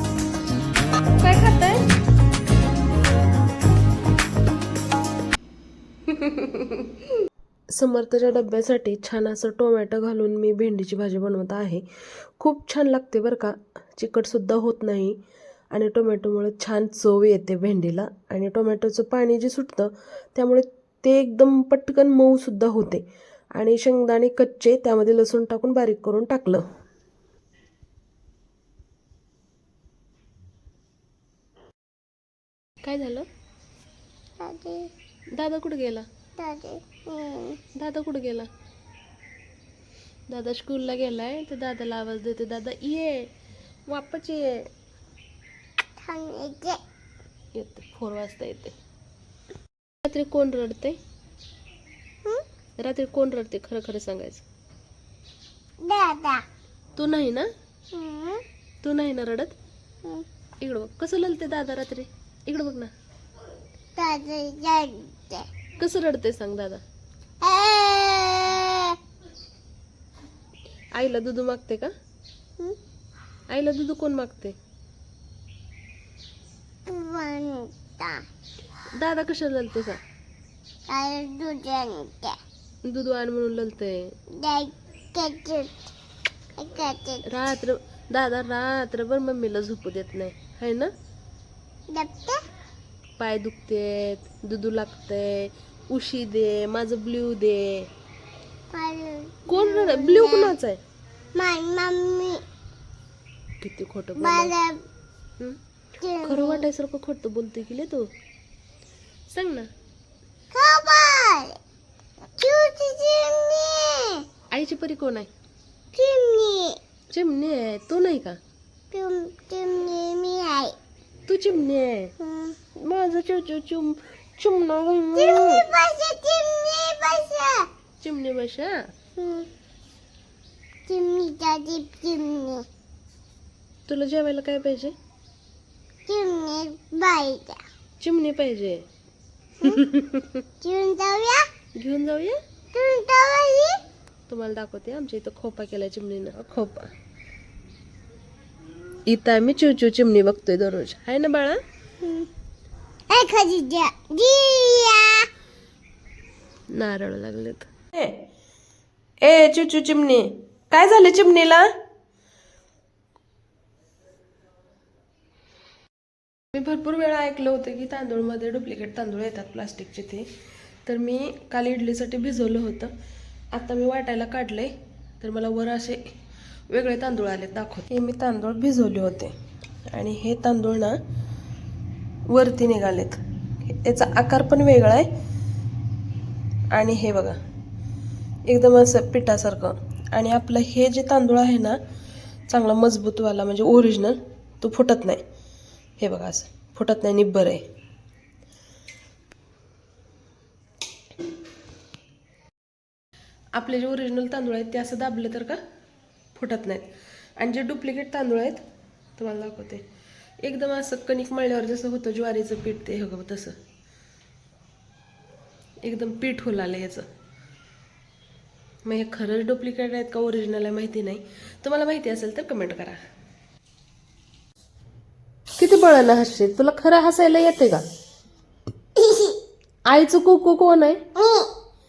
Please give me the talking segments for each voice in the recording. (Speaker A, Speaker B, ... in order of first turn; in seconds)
Speaker A: 1.2-1.9, 6.1-6.9, 7.7-15.2, 15.7-23.0, 23.5-26.6, 32.8-33.2, 35.4-36.0, 37.8-38.5, 40.3-43.3, 43.9-44.7, 47.5-48.7, 50.0-51.0, 52.8-54.4, 57.0-57.5, 58.8-59.5, 60.6-62.9, 65.8-66.8, 70.9-71.9, 73.5-74.5, 78.9-80.0, 82.8-84.1, 87.2-90.9, 93.2-97.9, 99.5-100.8, 103.6-104.5, 106.2-108.1, 109.3-109.7, 114.5-115.3, 117.1-118.4, 121.2-122.1, 122.7-125.6, 128.0-128.8, 133.9-134.9, 138.0-138.8, 139.6-140.4, 141.8-142.4, 144.3-146.9, 149.1-151.6, 156.7-158.2, 159.2-161.7, 166.5-170.3, 170.8-172.9, 173.5-176.0, 176.7-179.3, 179.9-181.0, 182.3-185.1, 186.7-187.4, 188.4-191.8, 192.5-195.2, 196.0-197.6, 203.5-205.6, 206.3-208.6, 209.2-209.8, 210.4-213.5, 215.8-217.1, 218.8-223.0, 225.6-227.8, 229.9-231.0
Speaker B: 34.4-34.9, 36.4-37.6, 46.0-46.8, 55.8-56.4, 57.9-58.4, 64.0-65.5, 67.4-69.0, 76.9-78.2, 80.9-82.4, 84.4-85.9, 86.6-87.3, 91.9-92.4, 98.7-100.5, 101.3-102.4, 104.2-104.8, 106.0-106.7, 110.5-111.6, 112.4-114.2, 115.9-116.8, 118.9-120.7, 122.2-122.6, 125.2-127.7, 129.2-129.5, 130.8-132.7, 136.1-137.6, 140.6-141.4, 142.7-143.8, 152.0-152.3, 153.1-155.3, 228.9-229.4, 231.1-231.5